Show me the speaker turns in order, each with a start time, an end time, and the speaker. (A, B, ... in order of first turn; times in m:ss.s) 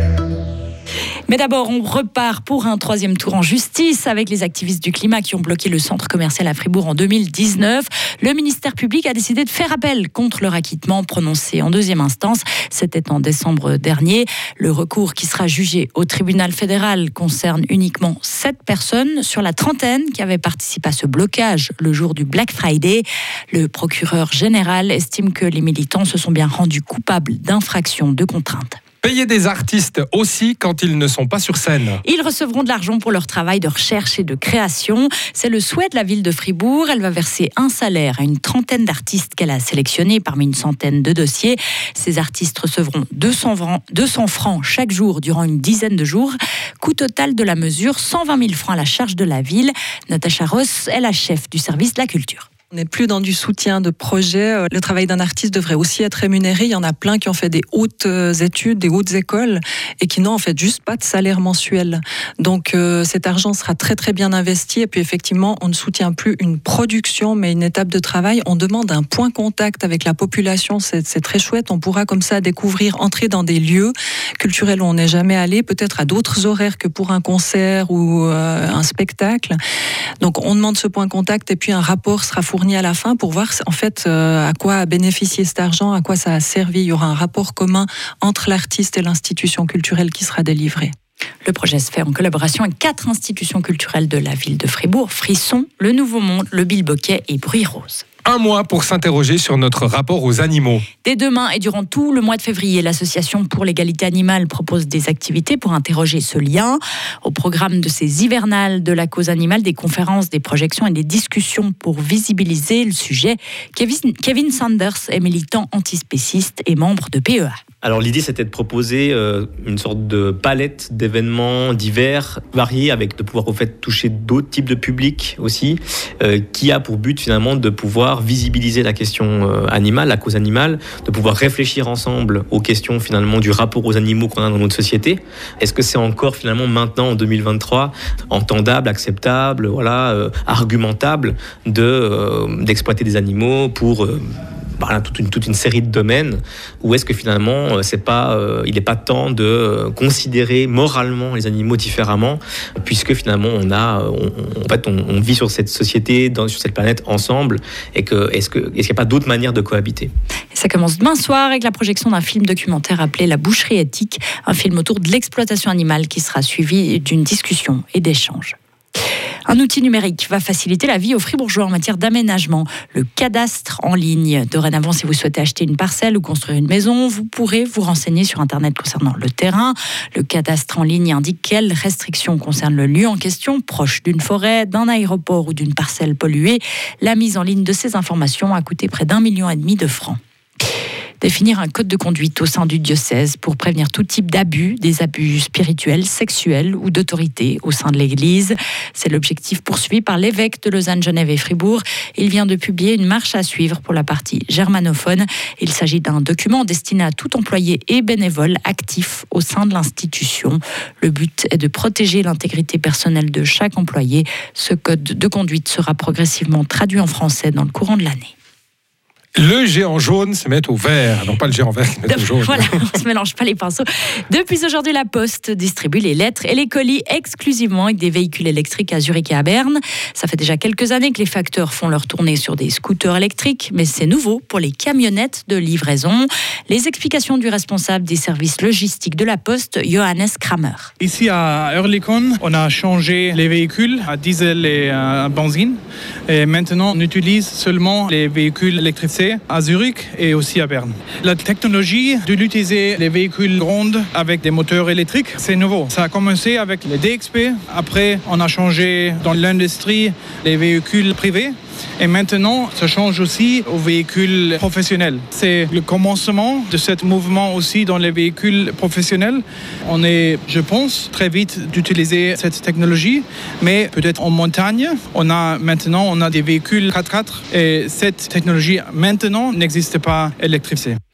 0:01.3-0:28.8 A
0:29.0-0:32.0 B
0:32.0-0:52.5 A
0:52.7-1:19.6 C
1:20.2-1:30.9 C
1:31.4-1:38.0 A
1:38.2-1:40.8 B
1:41.0-1:57.6 A
1:57.8-2:40.1 D
2:40.5-2:48.6 A
2:49.5-3:10.2 A
3:11.2-3:38.3 A
3:39.4-3:42.7 B
3:42.1-4:00.9 A
4:01.0-4:05.8 E
4:06.3-4:41.0 E